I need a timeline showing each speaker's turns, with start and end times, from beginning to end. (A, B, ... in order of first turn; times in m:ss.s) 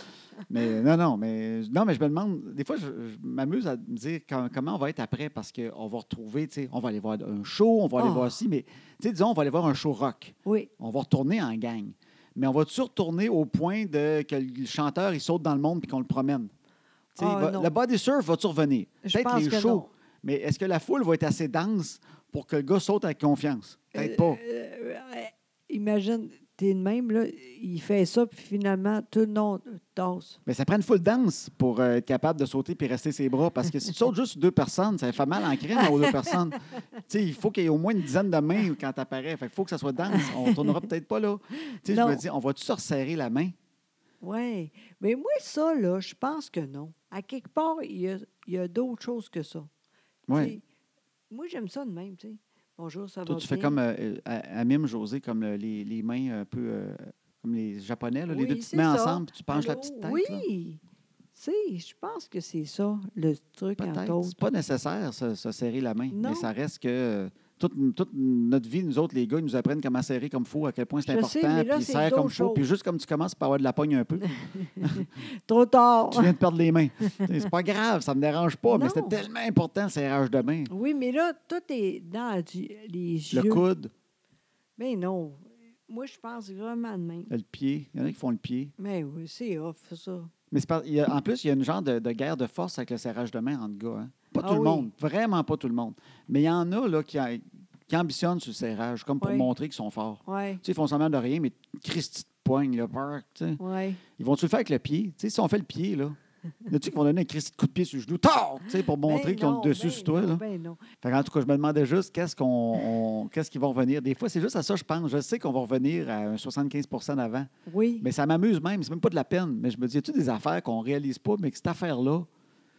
0:00.5-0:16.5 A
0:08.0-0:08.4 B
0:10.4-0:10.7 B
0:17.2-0:24.4 A
0:17.2-0:17.7 B
0:19.0-0:19.9 B
0:24.0-0:30.4 B
0:30.5-0:43.5 A
0:35.8-0:36.1 B
0:40.1-0:40.8 B
0:41.9-0:42.2 B
0:44.2-0:49.7 B
0:50.3-0:50.6 A
0:50.3-0:50.6 B
0:51.3-0:53.8 B
0:53.3-1:00.4 A
0:58.3-1:00.8 B
1:01.3-1:04.4 B
1:03.8-1:14.3 A
1:06.1-1:06.5 B
1:11.0-1:12.7 B
1:14.2-1:16.4 B
1:14.8-1:15.1 A
1:16.1-1:20.7 A
1:18.7-1:19.2 B
1:20.7-1:23.7 B
1:23.3-1:23.9 A
1:24.8-1:27.3 B
1:27.3-1:28.7 A
1:28.8-1:30.3 B
1:30.5-1:43.6 A
1:34.4-1:34.9 B
1:39.2-1:39.5 B
1:40.3-1:40.6 B
1:43.6-1:44.0 B
1:44.2-1:50.4 A
1:49.0-1:50.8 B
1:51.0-1:57.5 A
1:57.7-1:58.1 B
1:58.0-2:02.3 A